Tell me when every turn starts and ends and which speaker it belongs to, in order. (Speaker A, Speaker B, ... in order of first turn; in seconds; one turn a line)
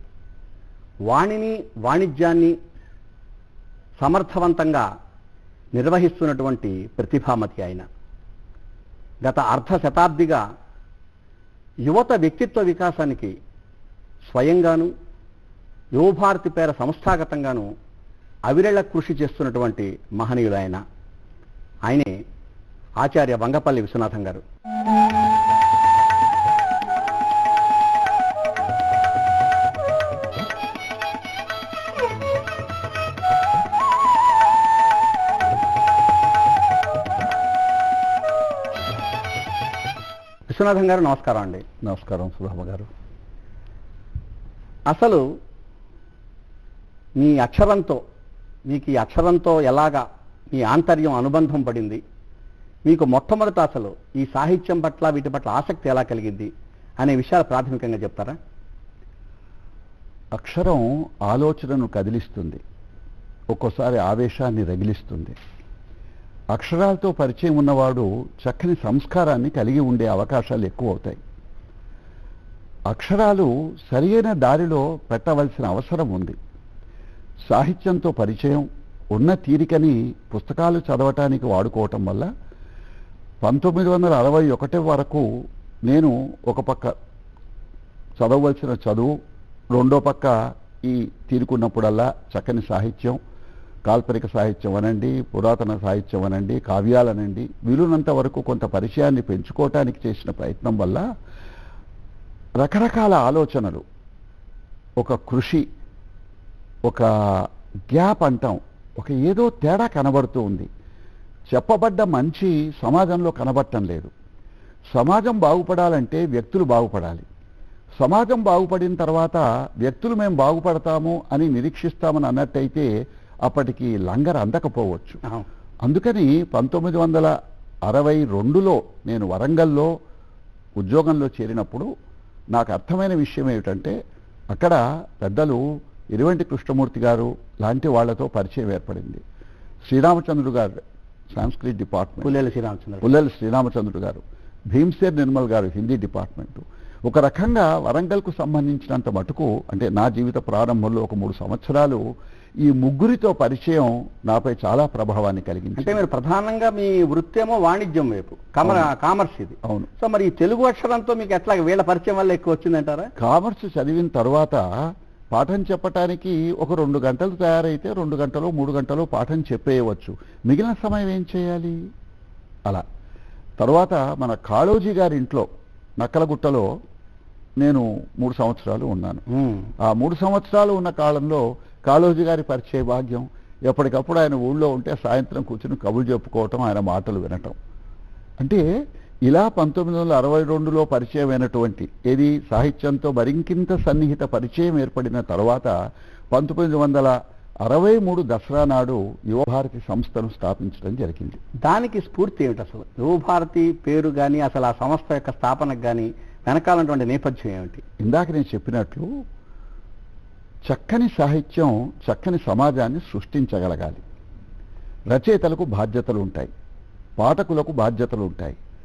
Speaker A: 1.1-2.5
Speaker A: 4.0-4.8
Speaker A: 5.7-7.8
Speaker A: 9.2-10.4
Speaker A: 11.8-13.3
Speaker A: 14.3-14.9
Speaker A: 15.9-17.7
Speaker A: 18.5-20.8
Speaker A: 21.9-22.1
Speaker A: 23.0-24.4
Speaker A: 40.5-41.6
Speaker B: 41.8-42.9
Speaker A: 44.9-45.2
Speaker A: 47.2-48.0
Speaker A: 48.7-52.0
Speaker A: 52.9-58.4
Speaker B: 60.4-62.6
Speaker B: 63.5-65.3
Speaker B: 66.5-71.2
Speaker B: 72.9-76.4
Speaker B: 77.5-82.3
Speaker B: 83.4-85.2
Speaker B: 85.9-86.9
Speaker B: 88.2-89.1
Speaker B: 89.7-93.2
Speaker B: 93.9-101.0
Speaker B: 102.6-103.8
Speaker B: 105.0-105.6
Speaker B: 107.9-110.7
Speaker B: 111.5-114.1
Speaker B: 114.9-117.2
Speaker B: 118.0-122.9
Speaker B: 123.5-125.2
Speaker B: 125.8-127.3
Speaker B: 127.9-129.9
Speaker B: 130.8-131.9
Speaker B: 132.5-133.9
Speaker B: 134.5-135.6
Speaker B: 136.1-139.2
Speaker B: 139.9-140.8
Speaker B: 141.3-142.3
Speaker A: 142.2-143.1
Speaker B: 143.0-152.0
Speaker B: 152.6-156.0
Speaker A: 155.8-163.1
Speaker B: 158.6-158.9
Speaker B: 163.2-164.6
Speaker B: 165.3-171.8
Speaker B: 173.6-175.4
Speaker B: 176.0-176.7
Speaker B: 177.6-179.2
Speaker A: 179.3-179.7
Speaker B: 179.8-187.6
Speaker B: 189.3-195.7
Speaker B: 196.3-201.4
Speaker A: 201.6-207.8
Speaker B: 208.0-209.1
Speaker B: 210.7-214.0
Speaker B: 215.1-216.5
Speaker B: 217.2-218.6